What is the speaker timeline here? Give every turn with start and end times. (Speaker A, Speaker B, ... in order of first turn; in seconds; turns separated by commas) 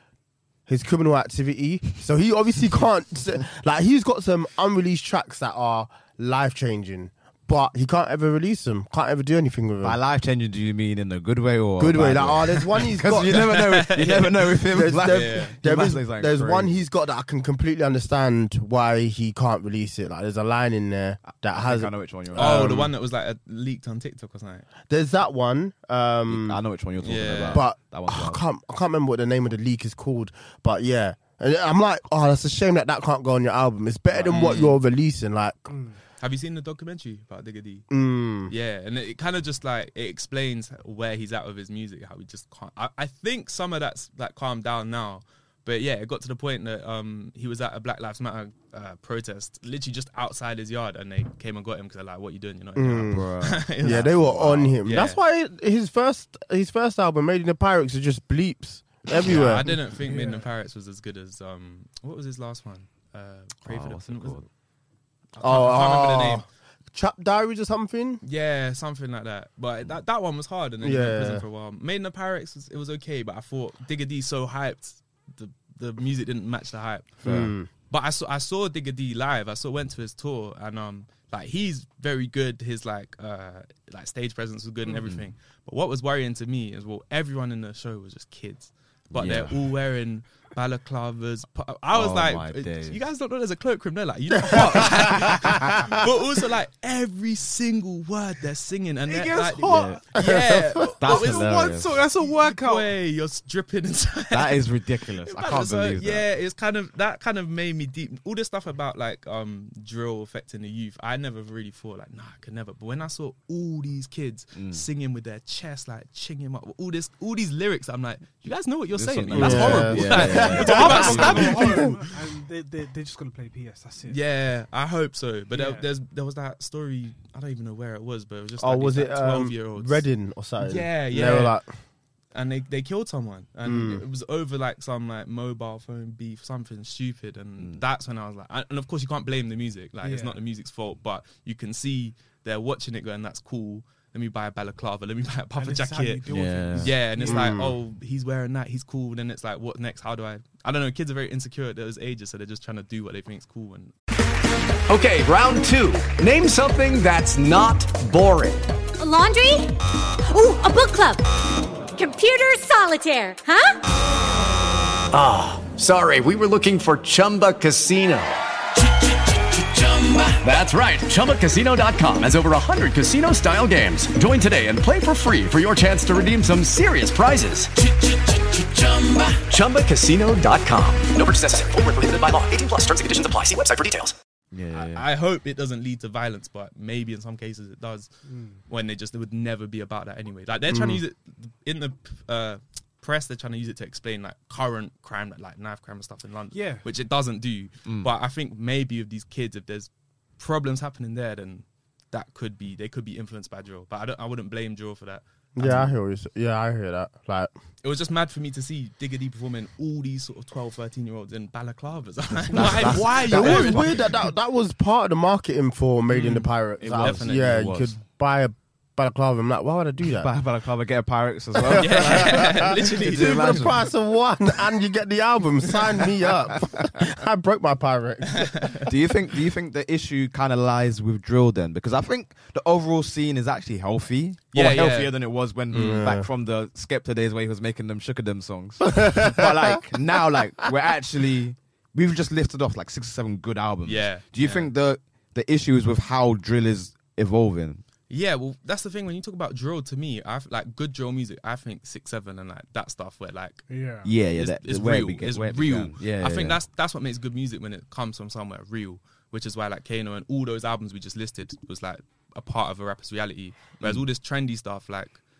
Speaker A: 0.7-10.0, Speaker B: 9.8-16.8, Speaker A: 11.8-13.6, Speaker C: 13.2-15.6, Speaker A: 14.6-22.9, Speaker B: 21.2-22.9, Speaker C: 22.3-24.7, Speaker A: 24.9-26.6, Speaker B: 26.3-28.4, Speaker C: 27.0-27.6, Speaker A: 27.5-35.7, Speaker B: 34.1-34.4, Speaker C: 34.3-34.8, Speaker D: 35.7-36.0, Speaker C: 36.2-37.9, Speaker A: 37.9-38.5, Speaker C: 38.5-55.2, Speaker A: 52.8-59.7, Speaker B: 53.1-54.8, Speaker C: 59.2-64.4, Speaker D: 60.0-60.5, Speaker B: 63.6-64.5, Speaker C: 65.3-66.5, Speaker A: 65.4-68.2, Speaker C: 68.2-122.1, Speaker A: 70.8-71.4, Speaker B: 77.2-77.5, Speaker A: 77.2-77.7, Speaker B: 85.0-85.3, Speaker B: 89.1-89.6, Speaker B: 91.9-93.0, Speaker A: 94.4-95.8, Speaker B: 94.8-95.6, Speaker D: 99.0-100.1, Speaker B: 99.7-100.0, Speaker A: 100.2-100.8, Speaker B: 101.0-102.0, Speaker D: 101.0-102.9, Speaker B: 104.3-106.2, Speaker B: 114.5-114.8, Speaker B: 118.9-121.6, Speaker A: 119.3-121.9, Speaker D: 120.0-124.2, Speaker C: 124.0-130.0, Speaker D: 125.5-125.9, Speaker A: 128.6-131.7, Speaker C: 130.6-131.6, Speaker C: 132.3-153.9, Speaker A: 133.6-134.0, Speaker D: 140.0-140.4, Speaker D: 145.6-147.6, Speaker B: 146.3-146.9, Speaker A: 147.2-147.7, Speaker E: 154.9-158.6, Speaker F: 159.0-159.8, Speaker F: 160.3-161.2, Speaker F: 161.9-163.8, Speaker E: 165.1-168.4, Speaker E: 169.0-184.1, Speaker B: 184.5-185.0, Speaker C: 184.7-188.1, Speaker D: 188.2-188.6, Speaker C: 188.7-205.2, Speaker A: 190.7-191.0, Speaker D: 196.5-196.8, Speaker B: 197.8-198.1, Speaker A: 205.6-207.5, Speaker B: 205.6-205.8, Speaker C: 207.8-214.2, Speaker B: 212.5-214.2, Speaker A: 212.6-220.3, Speaker C: 216.1-217.6, Speaker B: 216.8-217.9, Speaker B: 220.1-223.8, Speaker A: 221.6-228.7, Speaker C: 221.7-223.6, Speaker C: 228.3-228.8, Speaker B: 228.8-247.8, Speaker C: 234.5-235.1, Speaker C: 235.7-236.1, Speaker A: 235.7-236.3, Speaker A: 239.0-239.5, Speaker C: 243.8-244.7, Speaker C: 248.1-253.7, Speaker D: 253.7-254.1, Speaker B: 254.0-256.6, Speaker C: 254.3-265.2